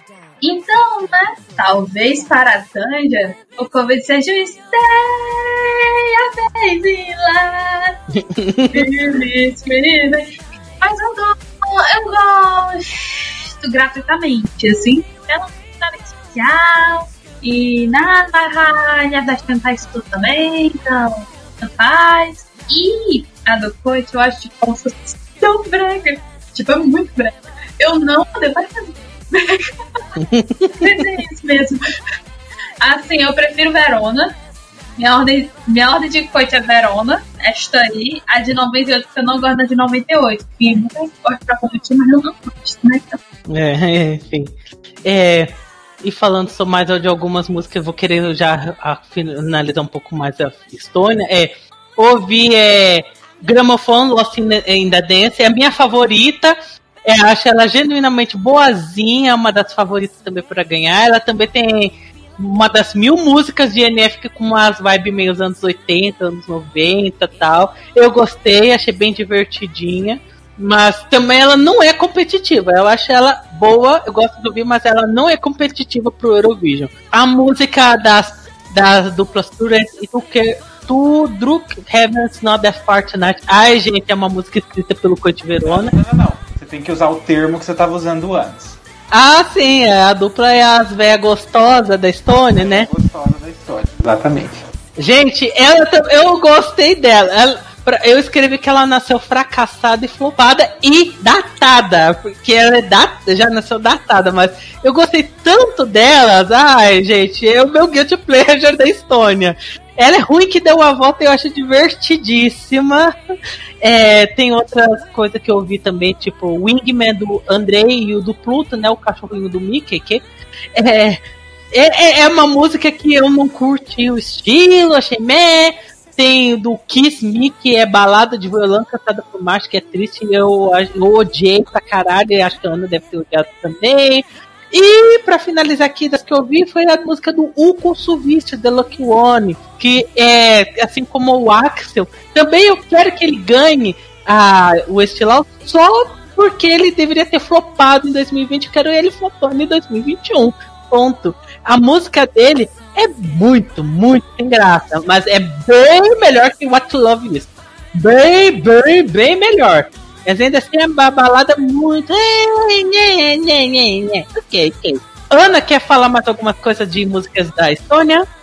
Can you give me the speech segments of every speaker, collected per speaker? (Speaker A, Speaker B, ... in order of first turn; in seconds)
Speaker A: 0.4-8.0, 8.7-29.7, 30.8-31.8, 32.8-34.3, 35.0-43.2
Speaker B: 8.1-8.9, 30.2-31.0, 43.5-85.9, 89.1-92.9, 95.0-113.1, 113.8-120.2, 120.8-121.2, 121.7-168.3
Speaker C: 85.6-88.8, 92.5-94.6